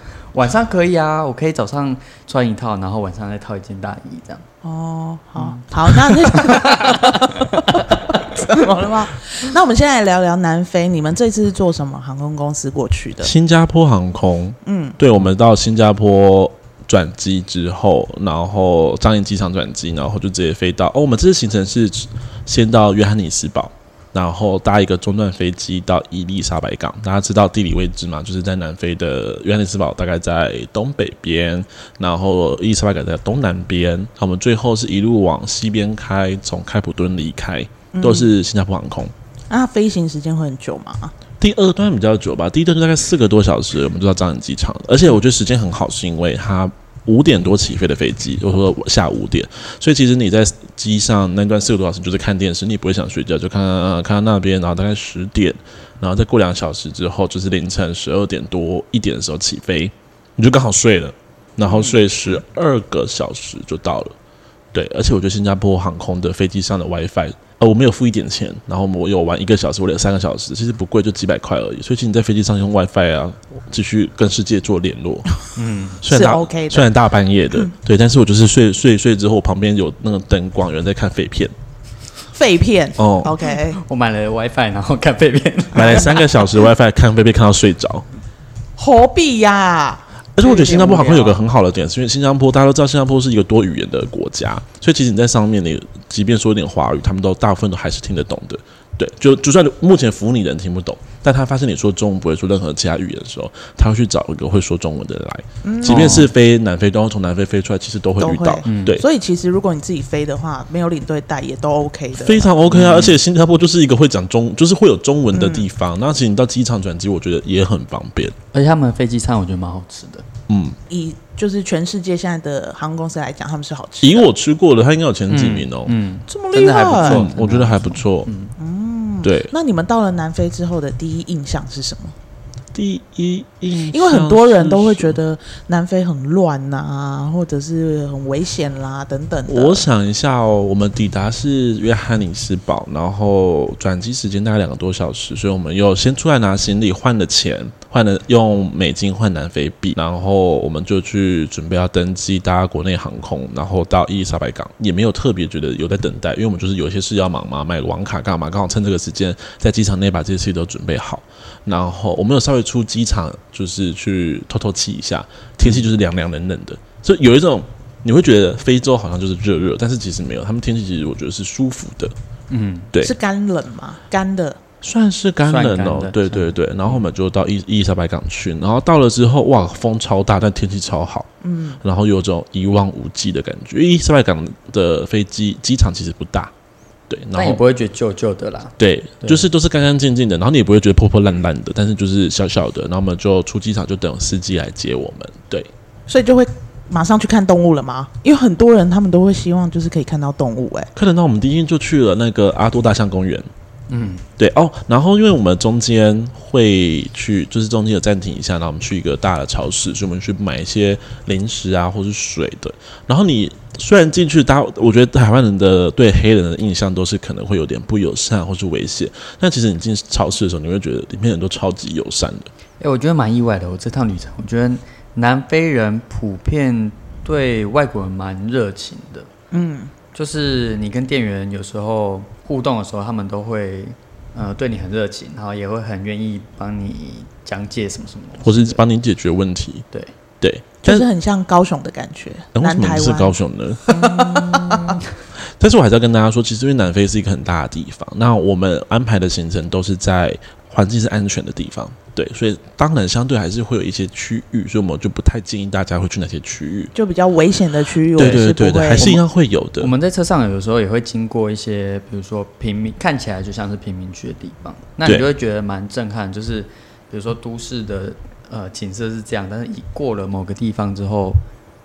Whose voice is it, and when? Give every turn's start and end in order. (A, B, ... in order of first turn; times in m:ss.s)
0:00.3-0:04.4 A
0:04.6-0:13.3 B
0:05.4-0:07.8 A
0:13.2-0:39.1 C
0:14.6-0:15.0 B
0:37.9-0:38.3 B
0:39.5-0:41.1 B
0:41.4-1:04.1 C
1:04.7-1:15.3 C
1:15.6-1:16.0 A
1:16.0-1:21.5 C
1:16.1-1:16.9 B
1:22.3-1:23.8 B
1:23.0-1:23.4 C
1:23.6-1:26.2 A
1:25.7-1:28.0 C
1:25.7-1:26.5 B
1:28.8-1:31.4 B
1:30.4-1:49.0 C
1:30.5-1:31.3 A
1:45.6-1:46.3 B
1:45.8-1:46.3 A
1:48.2-1:52.6 B
1:48.6-1:49.0 A
1:52.2-1:58.4 C
1:52.7-1:53.2 A
1:55.3-1:55.7 B
1:58.5-2:00.2 A
2:00.5-2:00.8 C
2:00.9-2:04.3 B
2:04.0-2:06.0 C
2:05.3-2:08.5 A
2:06.3-2:07.3 B
2:07.0-2:08.3 C
2:08.6-2:12.1 B
2:09.2-2:09.5 C
2:12.7-2:15.2 C
2:13.9-2:19.9 B
2:19.5-2:52.1 C
2:52.5-2:52.9 A
2:53.0-2:54.6 B
2:54.8-3:01.3 C
2:55.4-2:57.0 A
3:01.4-3:01.8 B
3:01.8-3:06.5 C
3:07.1-3:07.6 C
3:07.4-3:09.5 A
3:08.8-3:15.7 C
3:16.1-3:20.9 B
3:20.9-3:23.5 C
3:23.9-3:24.2 A
3:24.4-3:42.5 C
3:42.8-3:49.3 A
3:49.5-3:49.9 B
3:50.1-3:58.8 A
3:58.4-3:59.8 C
4:00.4-4:01.1 C
4:00.8-4:05.0 B
4:02.5-4:04.0 C
4:03.9-4:05.1 A
4:05.6-4:16.9 C
4:16.9-4:19.1 B
4:18.2-4:19.9 C
4:18.2-4:18.5 A
4:19.0-4:19.2 A
4:19.8-4:31.4 A
4:25.0-4:25.3 C